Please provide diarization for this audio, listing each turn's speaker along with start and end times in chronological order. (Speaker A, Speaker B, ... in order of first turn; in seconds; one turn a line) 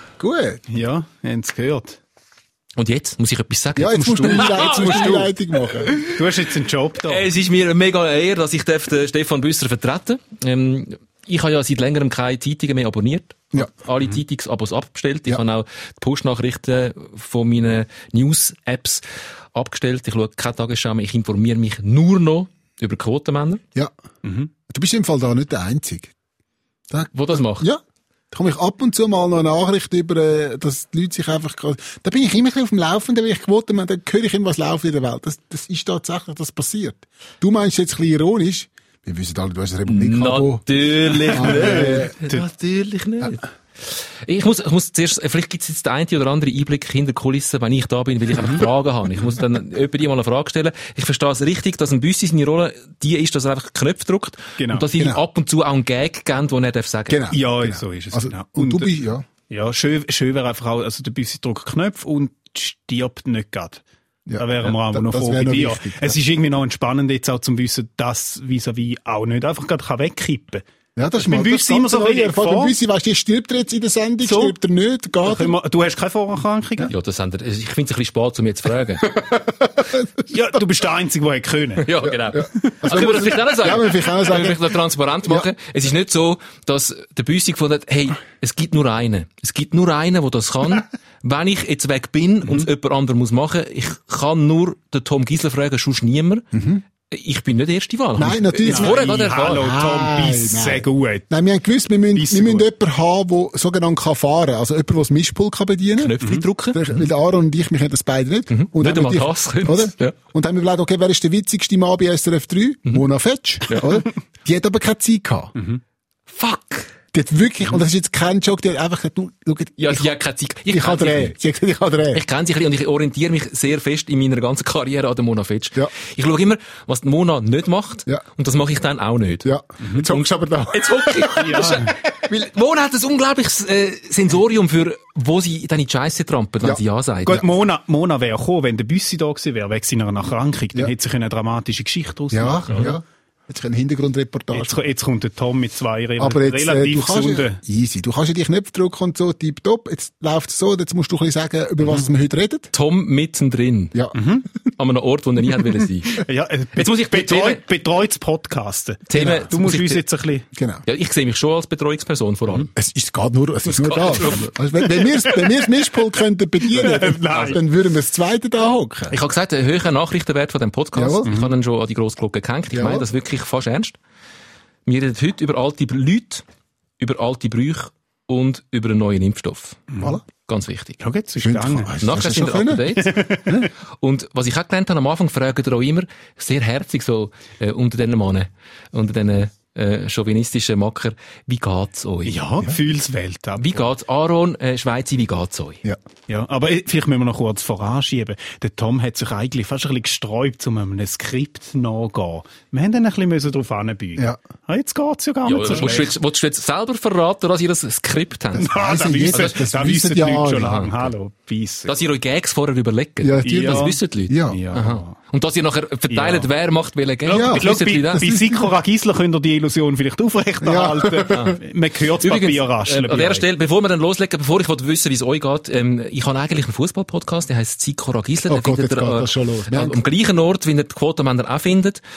Speaker A: 0.2-0.6
Speaker B: 0.7-2.0
Speaker C: 2.8-5.2
Speaker A: 3.8-6.0
Speaker B: 3.9-5.3
Speaker C: 5.9-6.2
Speaker B: 6.1-7.2
Speaker C: 7.0-23.6
Speaker B: 24.2-24.5
Speaker A: 24.7-26.1
Speaker A: 26.9-40.6
Speaker C: 27.1-27.7
Speaker C: 39.9-57.3
Speaker A: 41.2-42.1
Speaker B: 41.4-42.4
Speaker B: 54.6-54.9
Speaker A: 54.9-55.2
Speaker A: 57.1-59.2
Speaker B: 57.3-58.9
Speaker B: 59.5-63.8
Speaker A: 64.3-66.1
Speaker B: 64.4-70.6
Speaker A: 71.0-75.5
Speaker B: 71.2-72.8
Speaker B: 74.2-74.6
Speaker B: 75.2-76.9
Speaker C: 76.9-79.2
Speaker A: 79.1-80.2
Speaker B: 80.3-81.9
Speaker C: 81.8-96.5
Speaker A: 82.0-84.7
Speaker B: 82.6-83.5
Speaker B: 92.4-92.7
Speaker A: 96.5-96.8
Speaker C: 97.1-99.6
Speaker A: 98.2-106.2
Speaker B: 98.6-101.3
Speaker B: 102.1-102.7
Speaker C: 106.0-107.0
Speaker A: 106.7-115.5
Speaker C: 108.5-110.1
Speaker C: 113.7-114.0
Speaker B: 115.5-115.8
Speaker C: 116.3-117.0
Speaker A: 117.1-120.1
Speaker C: 119.8-121.3
Speaker A: 120.7-122.2
Speaker C: 122.1-137.4
Speaker A: 129.4-132.4
Speaker B: 131.4-131.9
Speaker B: 137.2-142.9
Speaker A: 142.3-144.8
Speaker B: 144.5-147.6
Speaker A: 146.2-152.7
Speaker C: 152.7-154.0
Speaker B: 154.1-154.4
Speaker C: 154.7-156.2
Speaker B: 156.1-160.5
Speaker C: 156.8-157.6
Speaker C: 159.1-160.0
Speaker A: 159.2-159.5
Speaker A: 160.5-160.8
Speaker C: 160.9-162.7
Speaker A: 162.8-169.2
Speaker C: 163.6-164.5
Speaker B: 165.0-166.0
Speaker B: 166.6-167.6
Speaker C: 167.3-167.6
Speaker C: 169.1-174.0
Speaker A: 170.9-171.3
Speaker B: 171.2-171.5
Speaker A: 172.7-173.1
Speaker C: 174.9-176.4
Speaker C: 177.0-181.0
Speaker B: 179.9-180.2
Speaker B: 181.0-181.9
Speaker A: 181.4-183.7
Speaker C: 182.0-183.3
Speaker B: 183.0-183.5
Speaker C: 184.0-192.4
Speaker B: 192.2-193.8
Speaker C: 193.6-195.8
Speaker B: 196.3-206.1
Speaker C: 205.4-208.7
Speaker B: 208.6-212.0
Speaker A: 208.6-210.9
Speaker C: 209.3-209.6
Speaker C: 211.9-218.3
Speaker A: 213.2-214.6
Speaker B: 213.4-215.2
Speaker B: 216.1-216.5
Speaker B: 217.2-223.5
Speaker A: 217.3-218.7
Speaker A: 220.6-221.6
Speaker C: 221.3-221.6
Speaker C: 222.2-232.0
Speaker A: 228.5-230.0